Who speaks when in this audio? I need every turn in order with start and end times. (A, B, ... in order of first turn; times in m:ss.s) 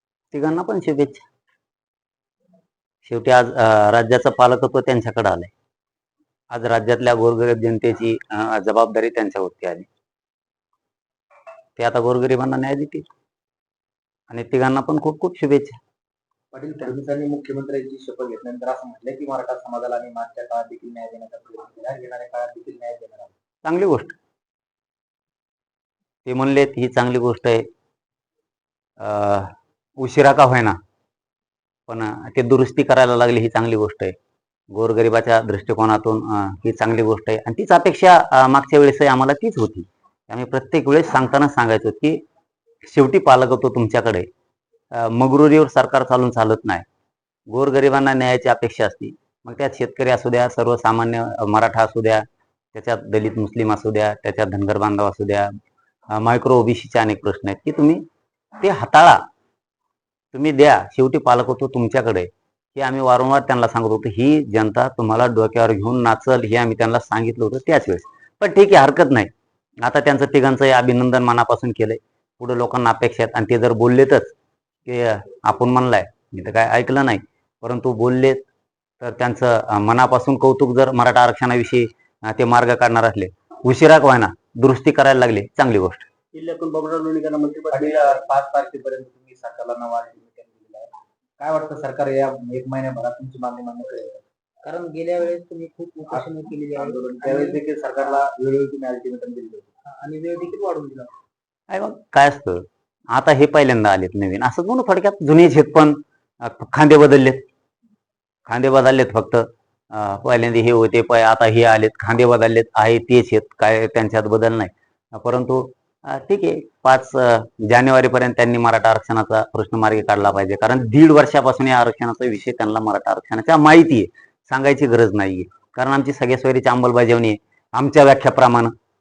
0:00.3-0:01.2 A
0:03.0-0:05.5 A
0:06.5-0:09.9 A
0:11.8-0:13.0 A
0:14.3-0:15.8 A
0:16.5-0:23.3 B
0:23.6-0:24.2 A
0:26.3-0:27.6 A
0:29.0-0:30.8 A
0:31.9-0:34.2 A
0:34.7-0:42.2 A
0:42.8-0:44.3 A
0:44.9-0:46.8 A
0:47.5-0:55.5 A
0:56.1-0:58.0 A
0:58.6-0:59.2 A
1:00.3-1:09.3 A
1:09.8-1:14.4 A
1:14.9-1:18.4 A
1:19.0-1:26.1 A
1:26.4-1:28.2 C
1:27.7-1:34.2 B
1:34.6-1:37.6 C
1:36.1-1:39.7 B
1:39.9-1:41.1 C
1:41.7-1:47.4 A
1:48.5-2:08.7 A